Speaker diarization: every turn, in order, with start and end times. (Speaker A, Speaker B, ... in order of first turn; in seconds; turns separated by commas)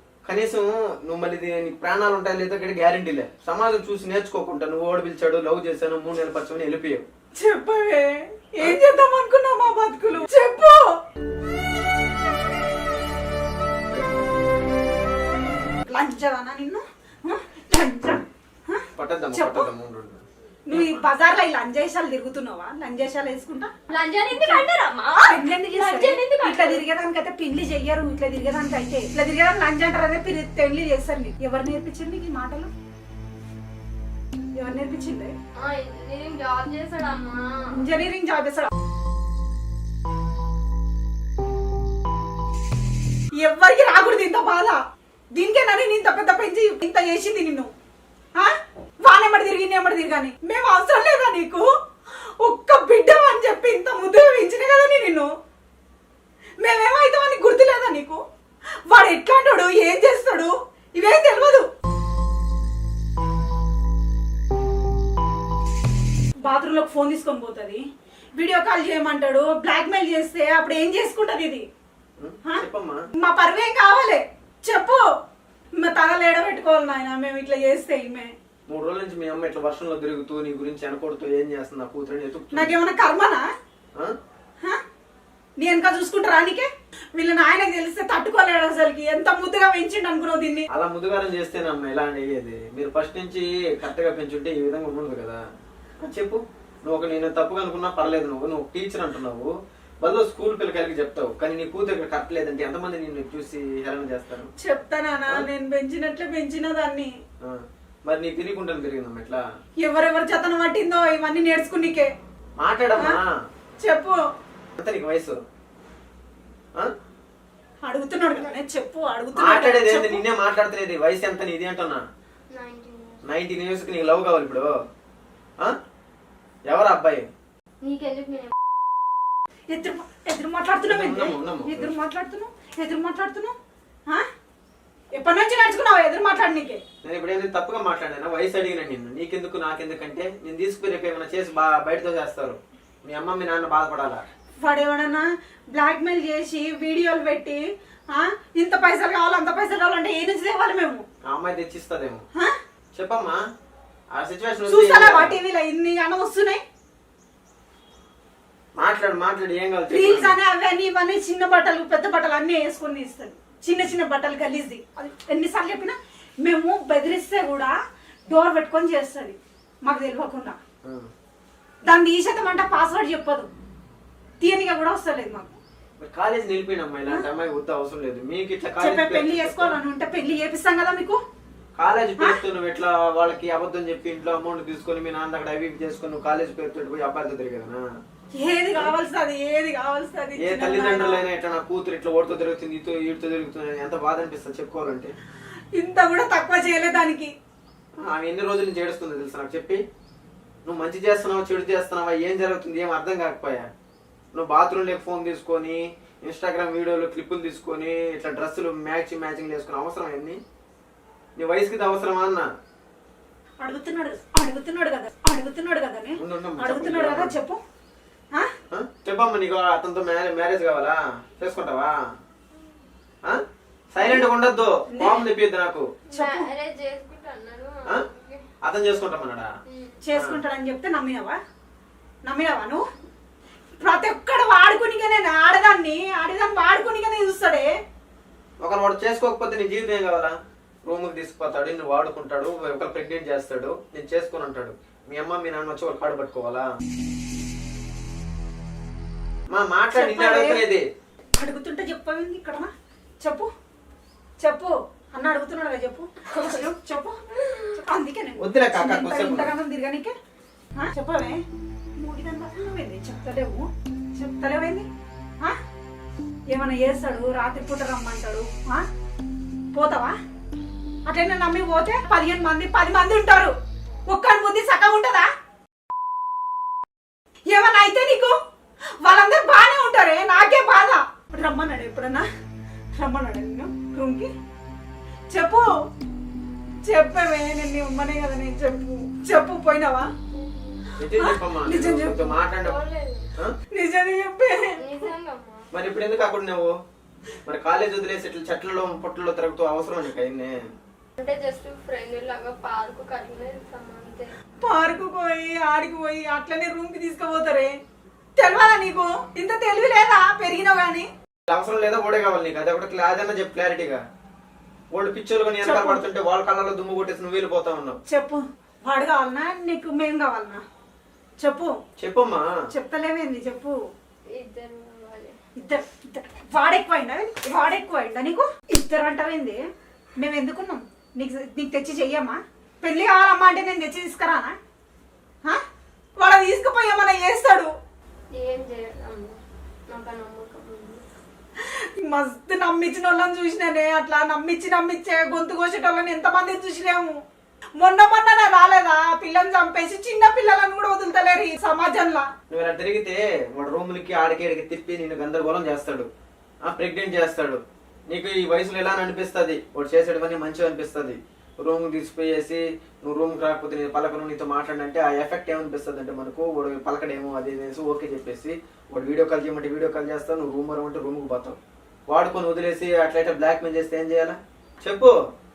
Speaker A: 0.2-7.0, Speaker B: 7.4-10.9, Speaker B: 15.8-19.7, Speaker A: 18.9-21.0, Speaker B: 20.7-23.7, Speaker C: 23.9-26.8, Speaker B: 24.3-24.6, Speaker B: 25.2-32.7, Speaker B: 34.6-35.3, Speaker C: 35.5-37.8, Speaker B: 37.7-38.7, Speaker B: 43.4-44.8, Speaker B: 45.4-47.7, Speaker B: 49.0-51.6, Speaker B: 52.4-55.3, Speaker B: 56.6-58.2, Speaker B: 58.9-61.6, Speaker B: 66.4-67.8, Speaker B: 68.3-71.7, Speaker A: 72.2-73.0, Speaker B: 73.2-75.0, Speaker B: 75.8-78.3, Speaker A: 78.7-82.7, Speaker B: 82.5-83.4, Speaker B: 85.6-90.7, Speaker A: 90.7-95.4, Speaker A: 96.0-99.5, Speaker A: 100.0-104.5, Speaker B: 104.6-107.1, Speaker A: 107.4-109.4, Speaker B: 109.8-112.1, Speaker A: 112.6-113.2, Speaker B: 113.8-114.2, Speaker A: 114.8-115.4, Speaker B: 117.8-120.2, Speaker A: 119.3-122.0, Speaker C: 122.5-123.2, Speaker A: 123.2-124.7, Speaker A: 126.7-127.2, Speaker C: 127.8-128.5, Speaker B: 129.7-133.6, Speaker A: 130.8-131.9, Speaker B: 135.1-136.8, Speaker A: 137.0-144.2, Speaker B: 144.6-147.6, Speaker B: 148.1-151.0, Speaker A: 151.3-152.2, Speaker A: 152.9-153.4, Speaker A: 154.1-155.4, Speaker B: 154.7-156.6, Speaker A: 158.8-160.4, Speaker B: 159.9-167.7, Speaker B: 168.3-170.6, Speaker A: 170.8-171.1, Speaker B: 171.9-173.5, Speaker B: 174.4-175.6, Speaker A: 176.0-179.8, Speaker B: 178.8-181.2, Speaker A: 181.8-187.8, Speaker B: 188.3-191.2, Speaker A: 190.4-195.1, Speaker B: 195.7-197.3, Speaker A: 198.0-199.8, Speaker A: 200.7-203.7, Speaker A: 204.3-210.4, Speaker A: 211.3-212.5, Speaker B: 213.6-217.6, Speaker A: 216.2-217.3, Speaker A: 218.7-221.9, Speaker A: 223.9-225.9, Speaker B: 224.0-224.2, Speaker B: 224.9-225.2, Speaker C: 226.1-228.4, Speaker B: 226.1-226.5, Speaker A: 228.6-229.5, Speaker C: 229.7-229.9, Speaker B: 230.0-231.4, Speaker A: 230.2-230.4, Speaker B: 232.2-232.8, Speaker B: 233.8-237.7, Speaker A: 238.6-246.7, Speaker A: 249.5-250.9, Speaker B: 249.9-250.6, Speaker B: 251.4-252.7, Speaker B: 253.2-253.5, Speaker B: 254.4-260.1, Speaker A: 258.4-259.5, Speaker B: 260.8-261.4, Speaker B: 262.0-264.9, Speaker B: 266.5-268.9, Speaker B: 269.7-270.1, Speaker B: 271.1-273.5, Speaker B: 274.1-275.3, Speaker B: 277.5-278.4, Speaker B: 279.0-282.2, Speaker B: 282.9-284.3, Speaker B: 285.3-285.7, Speaker B: 286.8-290.1, Speaker C: 290.4-290.7, Speaker A: 291.0-292.8, Speaker B: 291.1-292.3, Speaker C: 292.6-293.3, Speaker B: 293.7-295.1, Speaker C: 294.8-295.6, Speaker A: 295.7-296.7, Speaker A: 297.4-300.6, Speaker C: 301.2-304.3, Speaker B: 304.6-307.7, Speaker B: 308.4-311.1, Speaker A: 311.5-314.0, Speaker A: 314.9-318.0, Speaker B: 315.6-316.0, Speaker B: 318.1-320.6, Speaker B: 321.4-321.7, Speaker A: 322.0-322.4, Speaker B: 322.7-323.7, Speaker C: 324.3-325.3, Speaker B: 325.6-329.6, Speaker B: 330.2-334.5, Speaker B: 336.2-337.7, Speaker C: 338.3-339.4, Speaker C: 339.9-341.0, Speaker B: 341.7-347.1, Speaker B: 347.8-352.3, Speaker A: 352.5-356.1, Speaker A: 356.6-371.6, Speaker A: 372.1-375.1